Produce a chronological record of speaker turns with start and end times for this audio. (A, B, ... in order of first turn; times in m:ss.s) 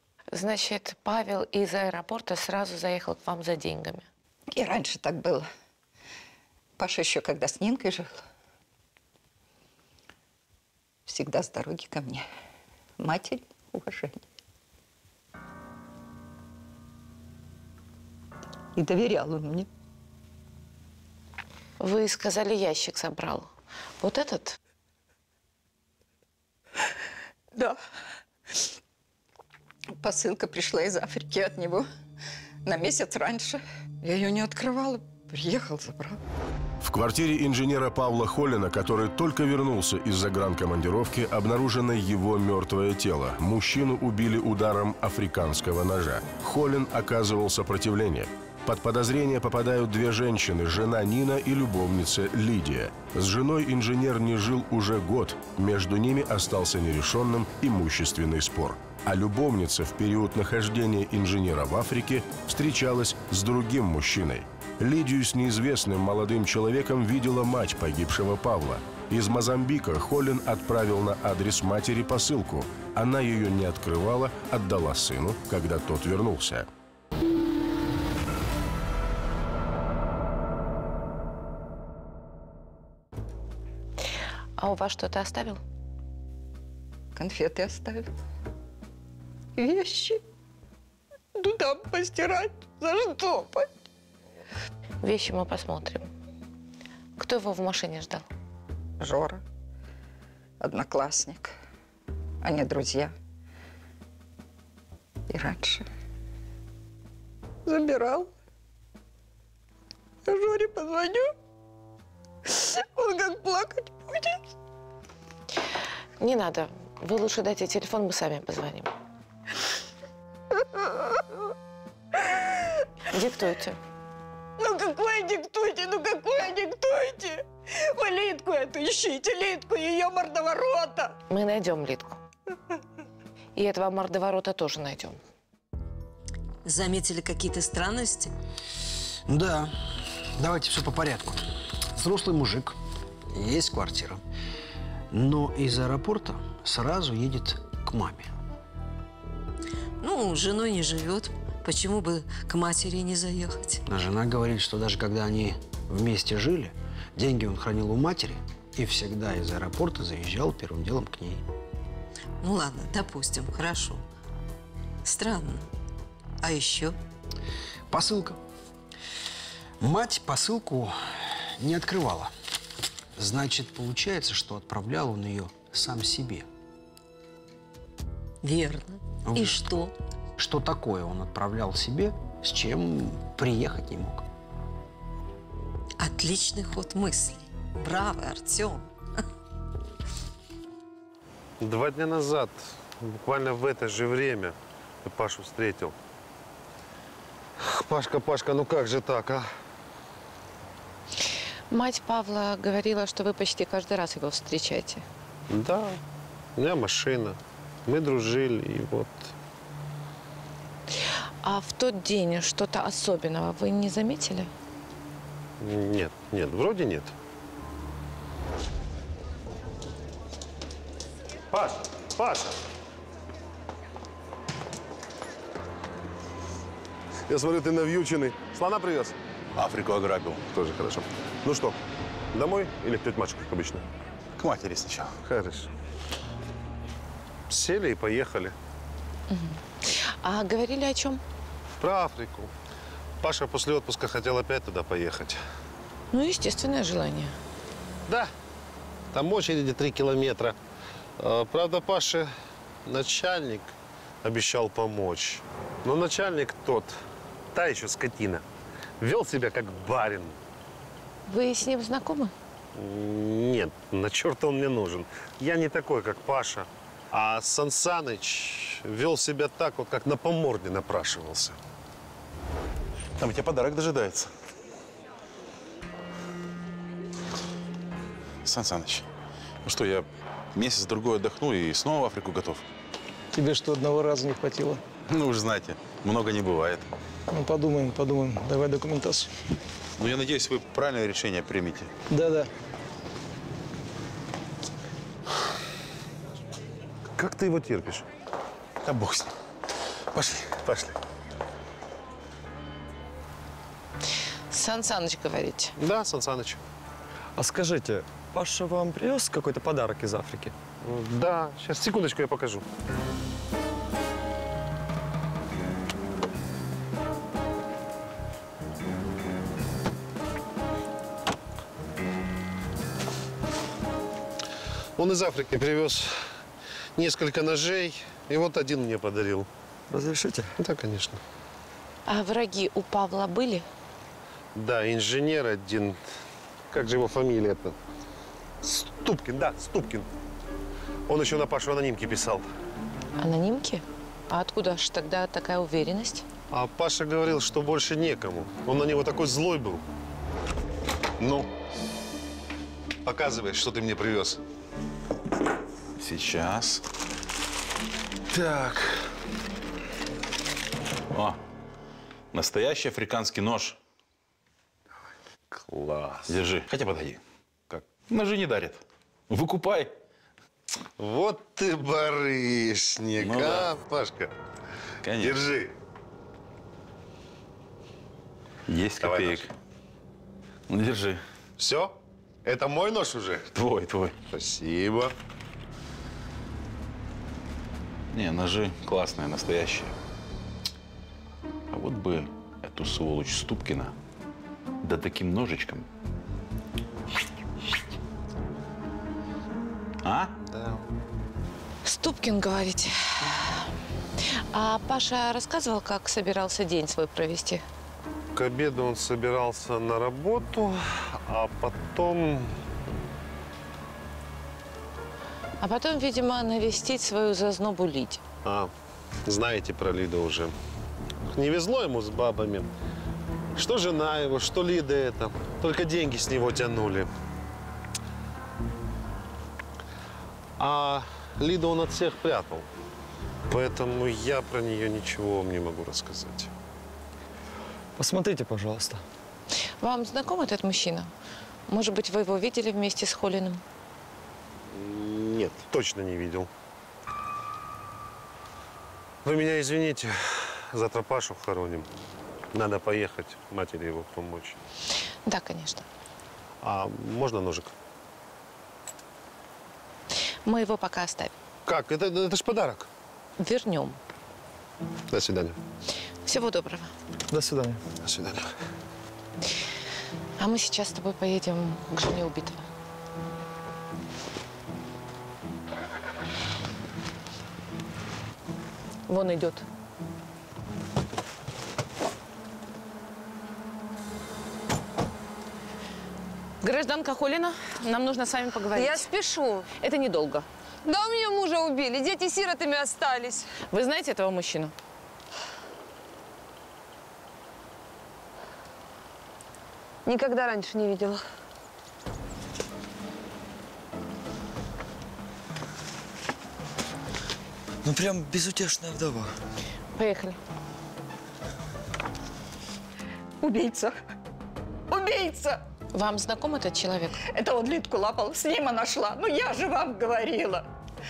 0:00.3-0:04.1 A
0:04.5-0:05.5 B
0:06.8-0:08.2 B
0:11.0-0:12.2 B
0:13.0-0:14.2 B
0:18.8-0:19.7 B
0:21.8-0:23.5 A
0:24.0-0:24.6 A
0:29.9-0:31.9 B
0:32.6-0:36.2 B
0:36.8-1:16.7 C
1:24.6-1:25.6 A
1:27.1-1:28.1 B
1:29.6-1:30.2 B
1:31.4-1:33.7 B
1:35.0-1:36.1 A
1:37.2-1:38.2 A
1:39.0-1:39.4 B
1:40.6-1:41.5 B
1:42.4-1:43.1 B
1:45.3-1:45.8 B
1:47.6-1:48.3 B
1:50.2-1:51.3 B
1:52.5-1:54.4 B
1:56.2-1:58.9 A
2:00.7-2:01.2 B
2:03.1-2:03.8 A
2:04.6-2:11.2 B
2:11.3-2:12.2 A
2:13.6-2:15.2 A
2:16.6-2:18.3 D
2:19.3-2:19.7 E
2:20.4-2:21.4 E
2:21.9-2:22.8 E
2:23.3-2:24.2 E
2:25.1-2:28.3 E
2:30.0-2:33.8 D
2:33.9-2:41.4 E
2:42.4-2:44.0 D
2:45.0-2:45.7 D
2:46.4-2:47.0 D
2:47.9-2:48.4 E
2:49.8-2:52.3 E
2:53.2-2:56.5 E
2:58.4-2:59.9 D
2:59.2-2:59.6 E
3:00.4-3:04.2 E
3:06.0-3:08.9 D
3:11.6-3:15.9 F
3:17.6-3:19.5 F
3:21.7-3:25.0 A
3:25.5-3:26.0 F
3:26.6-3:29.3 F
3:31.4-3:34.5 A
3:35.6-3:37.1 F
3:41.5-3:42.5 F
3:47.3-3:49.2 F
3:49.6-3:50.4 G
3:50.5-3:51.8 F
3:52.3-3:53.8 F
3:54.4-3:55.1 G
3:55.2-3:55.7 F
3:57.5-3:58.5 F
3:59.3-4:01.2 A
4:01.8-4:02.5 F
4:03.2-4:05.4 F
4:06.1-4:07.4 A
4:09.1-4:10.6 F
4:11.2-4:12.3 F
4:12.8-4:13.7 F
4:14.2-4:17.0 F
4:17.5-4:18.4 F
4:19.0-4:20.4 F
4:21.3-4:22.3 A
4:22.8-4:31.6 F
4:33.2-4:34.3 G
4:38.4-4:39.1 G
4:39.6-4:42.6 G
4:43.3-4:44.8 H
4:45.1-4:46.9 G
4:47.3-4:49.3 H
4:50.0-4:51.9 G
4:52.1-4:52.5 H
4:57.2-4:58.0 F
4:58.8-4:59.3 G
5:00.1-5:00.9 G
5:04.5-5:05.7 A
5:05.8-5:06.6 F
5:07.4-5:10.5 I
5:10.8-5:12.6 F
5:25.0-5:26.1 F
5:27.0-5:29.5 F
5:29.9-5:30.5 I
5:30.6-5:31.2 F
5:32.1-5:33.6 A
5:34.6-5:36.0 F
5:36.7-5:37.8 F
5:38.6-5:40.1 F
5:41.1-5:42.4 F
5:43.2-5:46.2 A
5:46.5-5:49.8 F
5:51.2-5:51.5 F
5:53.0-5:54.4 F
5:56.0-5:56.8 G
5:58.3-5:59.0 G
6:01.1-6:01.4 G
6:02.3-6:03.8 G
6:06.0-6:09.9 G
6:11.0-6:14.3 F
6:13.2-6:13.7 G
6:15.0-6:15.4 G
6:15.2-6:15.7 F
6:18.7-6:19.5 G
6:19.0-6:19.4 F
6:20.7-6:21.2 G
6:21.6-6:23.5 F
6:23.5-6:24.2 G
6:24.3-6:25.1 F
6:28.1-6:29.9 G
6:31.7-6:33.9 G
6:34.8-6:35.9 G
6:40.0-6:40.3 G
6:40.5-6:40.8 F
6:41.8-6:43.6 A
6:44.5-6:47.6 A
6:48.3-6:52.5 F
6:55.6-6:58.2 A
6:58.4-6:58.7 F
6:59.3-7:00.5 F
7:01.3-7:02.7 F
7:03.6-7:07.1 F
7:10.6-7:12.6 F
7:13.5-7:16.5 F
7:18.0-7:19.0 I
7:19.8-7:21.1 A
7:21.7-7:23.6 A
7:24.7-7:26.5 F
7:29.2-7:31.9 F
7:32.5-7:34.6 F
7:35.2-7:35.8 A
7:36.6-7:37.7 F
7:40.4-7:41.3 A
7:41.6-7:42.9 F
7:43.4-7:44.0 A
7:45.1-7:45.6 F
7:46.2-7:46.9 A
7:47.3-7:47.8 I
7:48.0-7:48.5 F
7:50.4-7:52.6 A
7:59.1-7:59.6 A
8:06.6-8:09.1 A
8:08.7-8:09.7 J
8:09.7-8:10.5 A
8:10.8-8:13.5 J
8:13.7-8:14.7 A
8:20.0-8:21.2 J
8:27.8-8:29.3 I
8:29.9-8:30.4 A
8:33.4-8:33.9 B
8:34.9-8:35.6 B
8:35.9-8:37.2 A
8:37.3-8:40.6 B